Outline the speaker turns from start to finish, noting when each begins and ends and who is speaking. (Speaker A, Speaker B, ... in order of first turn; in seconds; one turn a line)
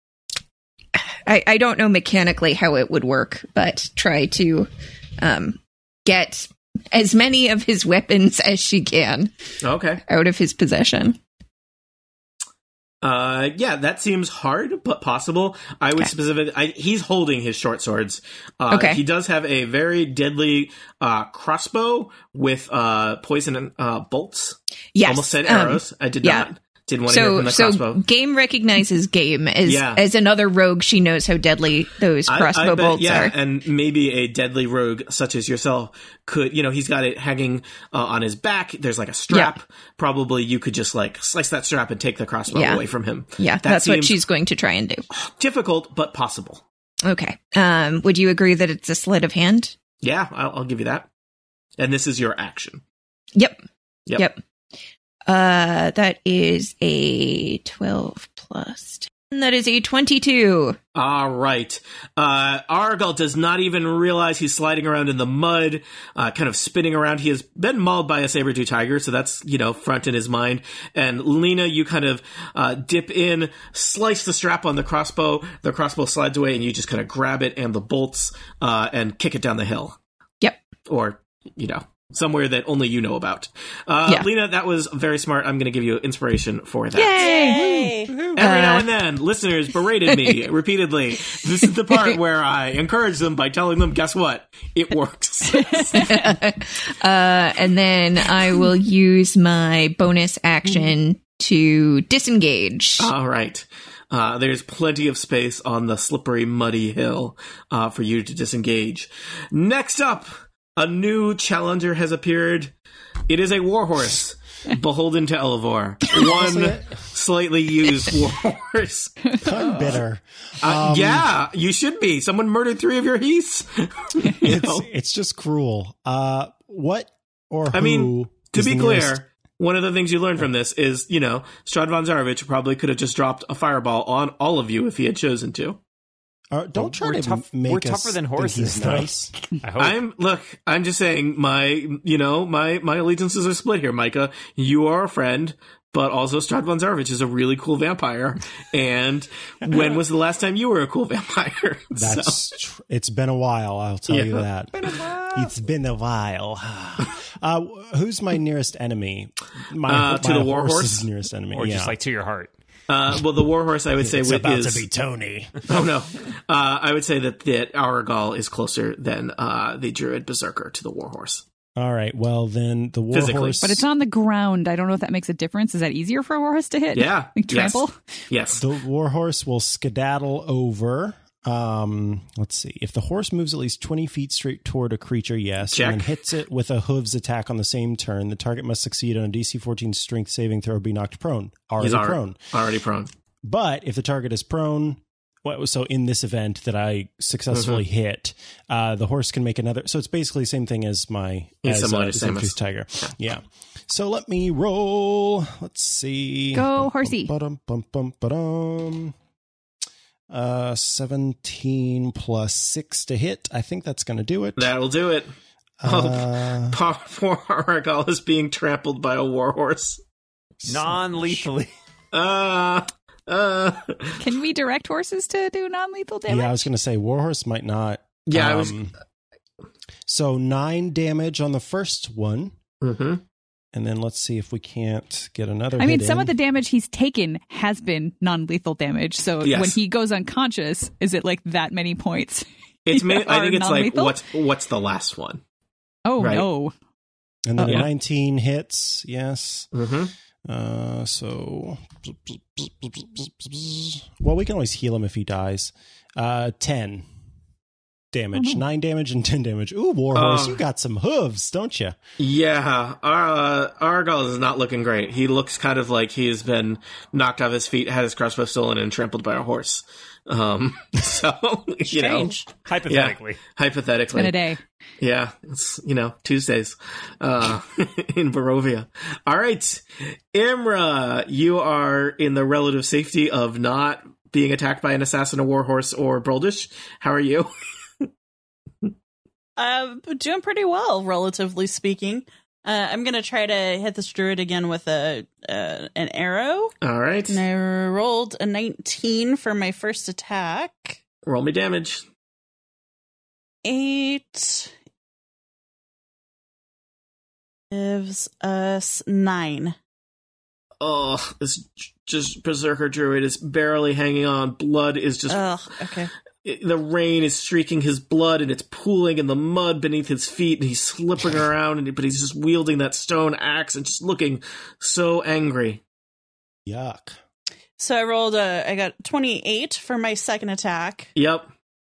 Speaker A: 1.0-9.3
Speaker B: 9.6-10.0
Speaker A: 10.1-11.2
Speaker B: 13.0-28.0
Speaker A: 18.7-19.0
Speaker A: 24.9-26.5
Speaker A: 27.1-33.3
Speaker B: 29.6-30.0
Speaker B: 32.3-44.2
Speaker A: 42.5-45.0
Speaker B: 45.1-46.6
Speaker A: 47.0-49.8
Speaker B: 50.0-51.1
Speaker B: 51.8-52.8
Speaker A: 53.4-53.6
Speaker A: 54.2-54.4
Speaker A: 55.3-60.8
Speaker B: 61.0-80.0
Speaker B: 80.9-87.2
Speaker A: 86.9-88.9
Speaker C: 87.2-88.3
Speaker D: 88.1-88.4
Speaker B: 88.3-96.1
Speaker A: 90.1-90.4
Speaker E: 95.6-96.3
Speaker A: 95.9-103.1
Speaker B: 103.0-112.7
Speaker B: 113.3-119.3
Speaker F: 116.1-117.0
Speaker F: 119.4-121.3
Speaker B: 120.6-124.9
Speaker F: 124.4-129.2
Speaker B: 127.7-135.8
Speaker F: 136.5-139.3
Speaker D: 136.8-140.0
Speaker B: 139.8-152.4
Speaker F: 151.9-162.0
Speaker B: 154.1-154.4
Speaker D: 154.8-155.5
Speaker B: 159.8-161.1
Speaker D: 161.5-162.5
Speaker B: 162.9-164.9
Speaker F: 164.0-165.7
Speaker B: 165.7-171.4
Speaker F: 171.8-173.8
Speaker B: 173.1-173.8
Speaker E: 173.6-177.9
Speaker B: 176.9-178.6
Speaker F: 178.6-192.4
Speaker B: 185.7-186.2
Speaker B: 191.8-193.1
Speaker F: 193.4-209.1
Speaker B: 197.5-197.8
Speaker B: 201.6-203.1
Speaker E: 206.5-207.3
Speaker F: 210.3-214.7
Speaker B: 214.6-215.3
Speaker F: 215.8-216.8
Speaker B: 215.8-220.0
Speaker F: 220.6-221.5
Speaker D: 220.7-221.7
Speaker B: 222.1-224.2
Speaker E: 224.2-226.6
Speaker F: 226.3-228.9
Speaker B: 228.3-228.7
Speaker F: 230.1-232.5
Speaker B: 232.8-233.2
Speaker F: 233.7-236.3
Speaker E: 235.8-244.2
Speaker B: 239.4-239.8
Speaker B: 242.8-245.4
Speaker E: 246.1-246.7
Speaker B: 246.2-246.5
Speaker F: 247.5-249.7
Speaker E: 247.6-247.9
Speaker B: 249.7-250.1
Speaker F: 250.4-257.1
Speaker F: 258.1-262.0
Speaker E: 258.4-258.6
Speaker B: 260.1-260.6
Speaker B: 262.2-274.4
Speaker C: 271.9-272.5
Speaker D: 272.6-273.4
Speaker E: 274.1-274.6
Speaker B: 275.0-287.5
Speaker C: 289.6-296.7
Speaker B: 296.8-297.4
Speaker C: 297.3-301.0
Speaker B: 301.2-302.0
Speaker C: 303.6-304.7
Speaker C: 307.7-309.8
Speaker B: 310.8-315.5
Speaker C: 315.3-316.1
Speaker B: 316.4-325.8
Speaker F: 326.7-327.2
Speaker C: 327.8-331.1
Speaker B: 331.1-331.5